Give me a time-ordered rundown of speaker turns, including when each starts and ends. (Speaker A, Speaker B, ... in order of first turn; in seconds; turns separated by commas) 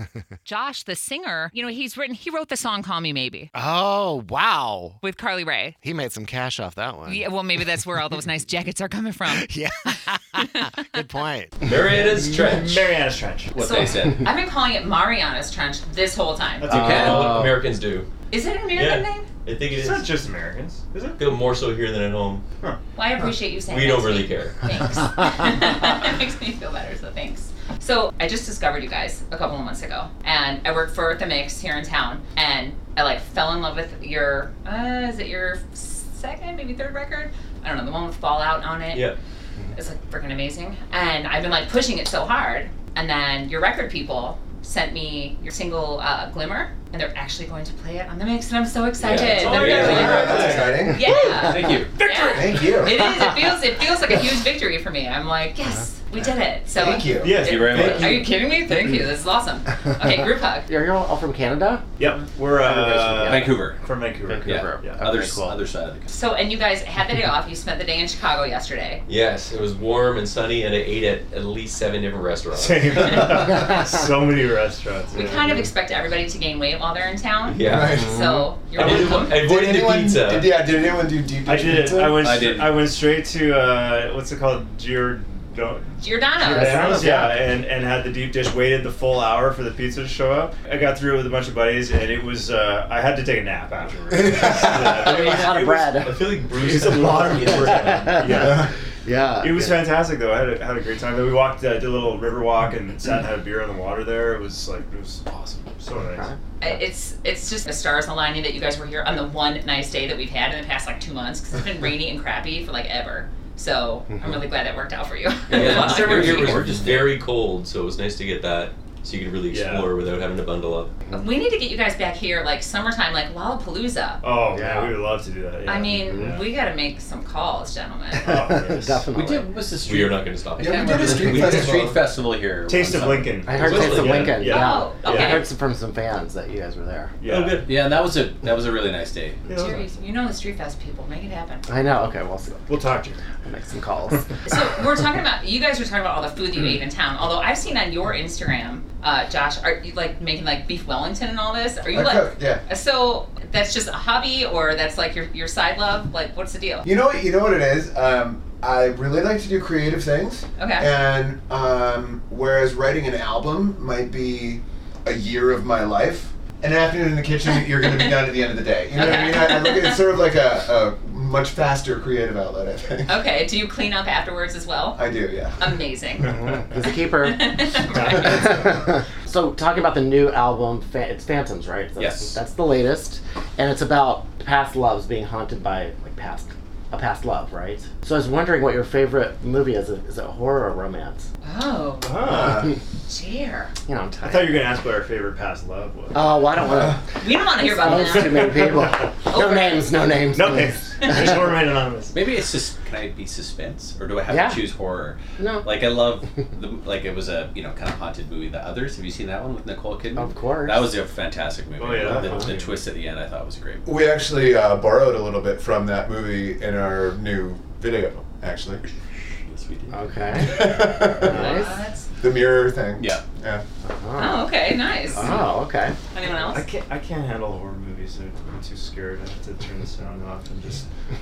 Speaker A: 0.5-3.5, Speaker B: 3.5-5.0, Speaker A: 5.0-5.8, Speaker B: 5.8-7.3, Speaker A: 7.1-11.0, Speaker B: 9.3-11.8, Speaker C: 11.6-12.9, Speaker D: 12.0-13.6, Speaker E: 13.5-14.3, Speaker A: 13.6-16.7, Speaker D: 16.6-17.4, Speaker B: 16.7-17.6, Speaker E: 16.7-17.2, Speaker C: 16.8-18.1, Speaker A: 18.3-19.3, Speaker C: 18.7-20.1, Speaker D: 19.7-21.2, Speaker C: 21.2-22.4, Speaker A: 22.9-39.1, Speaker C: 23.7-24.7, Speaker A: 39.8-60.7, Speaker C: 49.0-50.8, Speaker E: 49.4-50.3, Speaker D: 49.5-49.8, Speaker F: 49.6-51.1, Speaker E: 51.0-52.0, Speaker D: 52.0-52.6, Speaker F: 52.3-53.1, Speaker F: 56.7-57.4, Speaker D: 57.2-58.2, Speaker E: 57.4-58.2, Speaker B: 60.7-63.6, Speaker D: 62.0-65.0, Speaker E: 63.2-63.8, Speaker B: 64.2-65.6, Speaker E: 64.5-66.1, Speaker A: 66.1-69.0, Speaker C: 69.1-73.3, Speaker D: 72.5-75.7, Speaker A: 73.1-73.6, Speaker A: 75.1-79.4, Speaker C: 77.5-78.1, Speaker F: 77.6-82.3, Speaker B: 78.0-78.5, Speaker C: 78.7-80.5, Speaker D: 81.5-95.3, Speaker E: 82.2-82.8, Speaker A: 86.0-86.9, Speaker B: 86.4-87.3, Speaker F: 94.1-95.6, Speaker B: 94.4-99.9, Speaker C: 94.8-98.4, Speaker D: 96.6-98.7, Speaker F: 98.3-98.7, Speaker D: 99.4-106.3, Speaker B: 106.1-106.7, Speaker A: 106.6-116.6, Speaker C: 115.5-120.9, Speaker E: 115.6-117.2, Speaker D: 119.5-119.9, Speaker A: 121.1-124.2, Speaker D: 124.2-126.5, Speaker B: 124.5-125.0, Speaker A: 125.7-128.5, Speaker D: 128.2-129.1, Speaker B: 128.2-129.5, Speaker E: 129.1-134.0, Speaker C: 129.8-131.9, Speaker F: 130.6-132.0, Speaker A: 130.6-131.0, Speaker D: 132.7-135.4, Speaker B: 133.4-137.1, Speaker C: 133.6-134.5, Speaker A: 134.4-135.5, Speaker D: 137.2-137.6, Speaker C: 137.3-137.7, Speaker E: 137.6-139.4, Speaker D: 139.5-139.9, Speaker A: 139.5-141.7, Speaker B: 141.7-142.7, Speaker D: 142.7-143.2, Speaker B: 143.4-144.3, Speaker A: 144.5-156.9, Speaker F: 151.9-152.6, Speaker F: 156.8-173.2, Speaker A: 160.6-160.9, Speaker A: 167.5-168.2, Speaker A: 168.9-170.0, Speaker A: 173.1-175.1, Speaker F: 174.9-175.6, Speaker A: 175.6-178.6, Speaker B: 176.3-191.3, Speaker D: 178.0-178.5, Speaker E: 182.0-182.4, Speaker A: 191.4-192.1, Speaker D: 192.0-192.6, Speaker F: 192.3-192.7, Speaker A: 193.1-193.7, Speaker B: 193.9-194.7, Speaker D: 194.2-196.2, Speaker B: 196.1-201.4, Speaker A: 197.2-198.7, Speaker D: 197.9-199.1, Speaker A: 199.3-200.0, Speaker D: 200.3-202.2, Speaker A: 201.0-201.3, Speaker E: 202.1-213.9, Speaker B: 204.3-204.6, Speaker B: 205.4-205.7, Speaker B: 210.1-210.9, Speaker D: 211.8-212.6, Speaker F: 212.0-212.5, Speaker B: 212.0-212.6, Speaker F: 213.8-218.8, Speaker E: 219.5-220.4, Speaker B: 219.9-221.7, Speaker F: 220.4-221.7, Speaker A: 221.2-222.1, Speaker F: 222.2-223.6, Speaker E: 223.0-223.2, Speaker B: 223.8-224.5, Speaker A: 224.2-225.4, Speaker B: 225.1-226.0, Speaker E: 225.2-225.4, Speaker A: 226.1-226.7, Speaker D: 226.3-230.9